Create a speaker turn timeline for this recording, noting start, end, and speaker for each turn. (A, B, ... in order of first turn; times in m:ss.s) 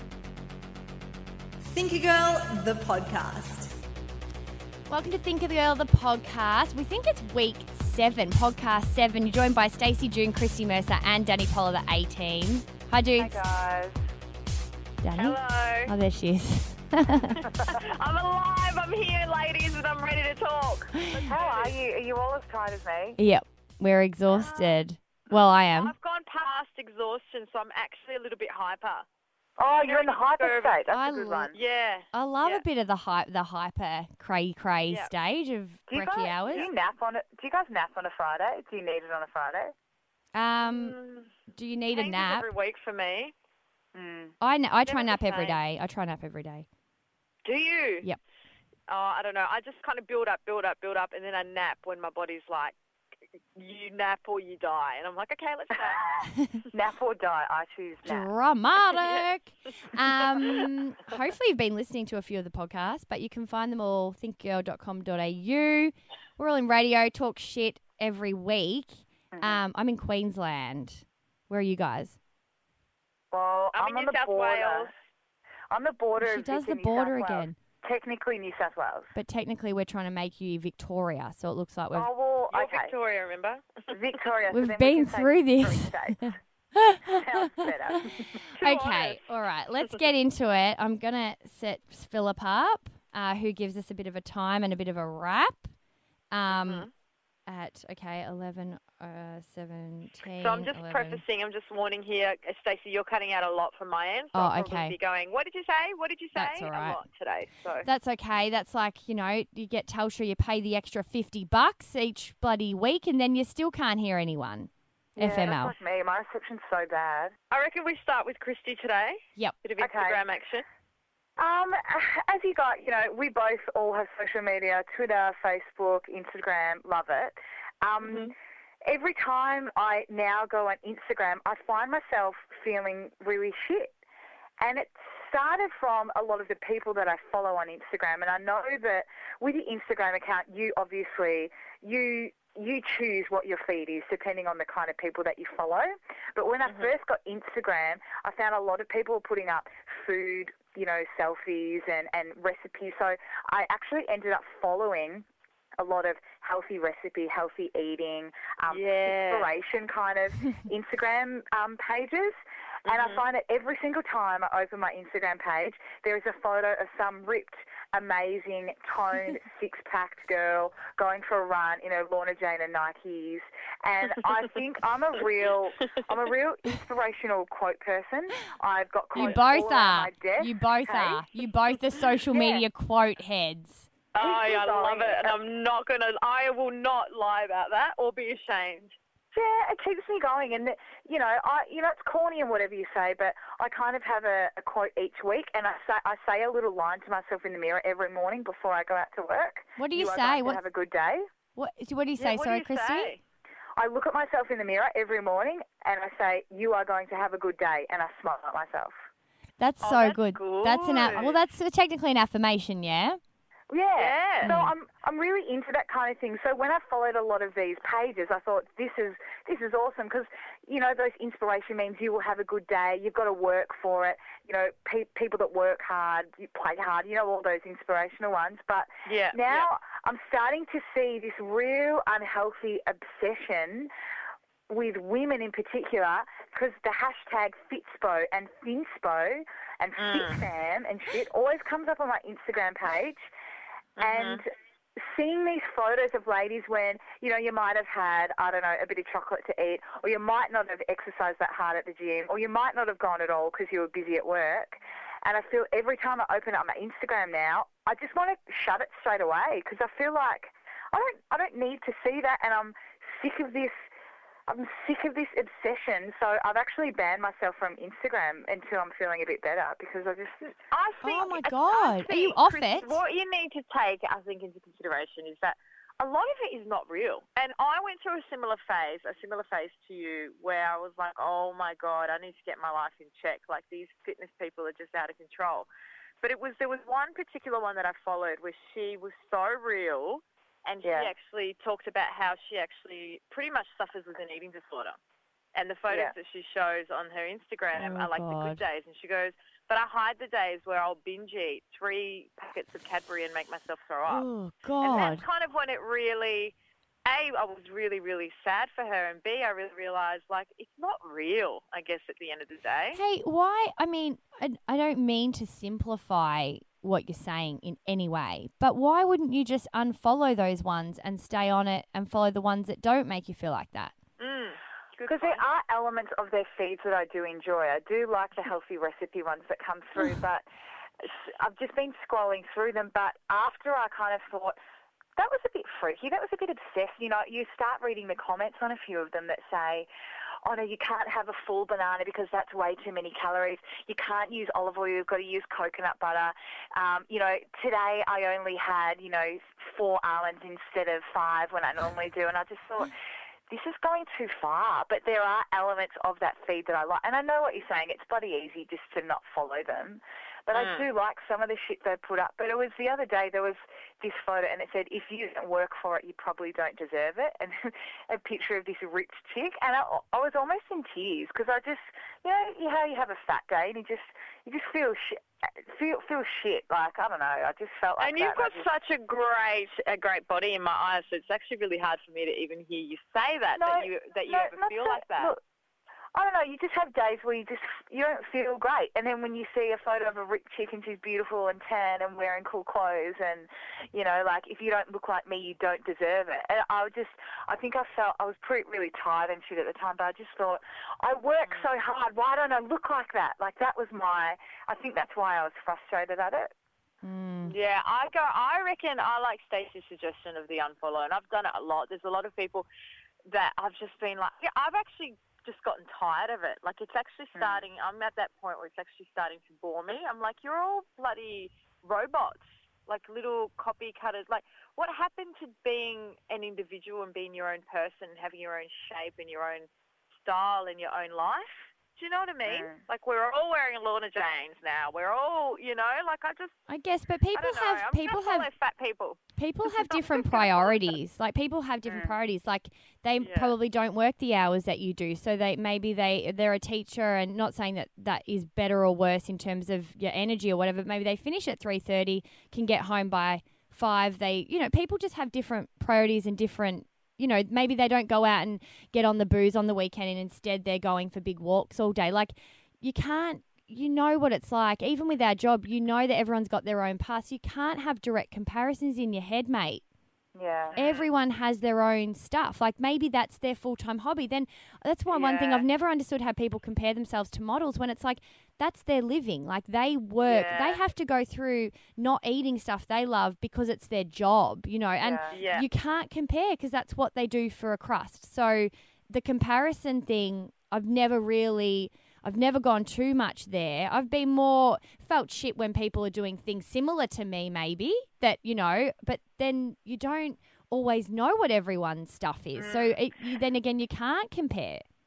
0:01.6-0:03.7 A
0:04.9-0:13.4 B
0:13.2-0:14.0 C
0:15.0-0:17.4 B
0:15.2-0:15.9 D
0:17.3-0:21.8 D
0:21.0-0:21.3 B
0:21.3-0:23.2 C
0:23.2-0:25.9 B
0:24.3-0:29.0 D
0:29.6-0:31.6 C
0:29.8-0:30.8 D
0:30.9-0:31.5 B
0:31.5-0:32.6 D
0:32.1-0:36.7 B
0:35.9-0:39.7 C
0:40.3-0:41.0 B
0:40.6-0:41.3 D
0:41.5-0:42.5 B
0:42.0-0:43.3 D
0:44.0-0:44.3 C
0:44.4-0:46.6 B
0:44.9-0:45.6 D
0:47.4-0:48.0 D
0:48.9-0:52.7 D
0:53.6-0:56.2 D
0:56.7-0:58.3 C
0:58.0-1:12.2 B
1:09.3-1:09.6 C
1:13.3-1:14.9 C
1:13.7-1:14.9 D
1:15.7-1:19.1 C
1:16.2-1:17.6 B
1:19.2-1:22.1 B
1:21.9-1:22.9 C
1:22.5-1:23.9 D
1:23.9-1:26.3 C
1:24.5-1:35.7 B
1:27.1-1:28.2 C
1:28.6-1:29.2 D
1:36.3-1:36.9 B
1:36.5-1:36.9 D
1:37.5-1:41.2 B
1:40.4-1:47.9 D
1:44.3-1:44.9 B
1:46.4-1:47.0 B
1:47.8-1:55.8 B
1:55.2-1:57.3 C
1:57.5-2:00.6 D
1:59.8-2:00.2 C
2:01.4-2:13.9 C
2:08.0-2:08.3 D
2:14.6-2:35.2 C
2:35.8-3:01.2 C
2:38.7-2:39.5 D
2:42.9-2:43.2 D
2:59.2-3:03.9 B
3:02.3-3:02.6 C
3:04.1-3:09.0 D
3:04.2-3:05.4 C
3:09.3-3:21.2 C
3:19.8-3:20.6 B
3:21.6-3:23.2 B
3:22.2-3:23.2 D
3:23.8-3:29.0 C
3:29.6-3:33.2 B
3:29.8-3:31.3 D
3:33.7-3:53.9 C
3:34.0-3:34.5 D
3:34.5-3:34.7 B
3:49.1-3:49.7 D
3:54.7-4:03.3 C
4:00.0-4:00.4 D
4:04.0-4:23.8 C
4:04.0-4:04.4 D
4:24.5-4:30.5 C
4:30.7-4:45.7 D
4:31.0-4:33.0 B
4:46.2-4:55.0 D
4:50.8-4:51.1 C
4:55.5-5:04.3 D
4:57.8-4:58.6 B
5:04.1-5:05.2 B
5:04.8-5:06.5 D
5:07.1-5:13.0 D
5:12.9-5:23.9 B
5:24.2-5:25.4 D
5:25.1-5:30.4 C
5:31.0-5:34.6 C
5:35.2-5:39.9 C
5:40.4-5:52.9 C
5:53.5-6:18.7 C
6:00.5-6:00.8 D
6:18.0-6:25.3 D
6:23.6-6:25.4 C
6:26.1-6:46.5 C
6:47.0-6:47.5 B
6:47.4-6:52.6 D
6:53.3-7:09.7 D
6:57.3-6:57.6 C
7:10.2-7:16.6 D
7:12.4-7:12.8 C
7:16.7-7:18.5 B
7:17.3-7:20.9 D
7:19.4-7:49.8 B
7:21.8-7:22.1 C
7:23.2-7:23.5 D
7:50.3-7:50.8 C
7:50.7-7:51.1 D
7:50.8-8:24.8 B
7:55.1-7:55.6 D
8:00.2-8:00.8 D
8:05.0-8:05.3 C
8:05.3-8:05.7 D
8:22.6-8:22.9 D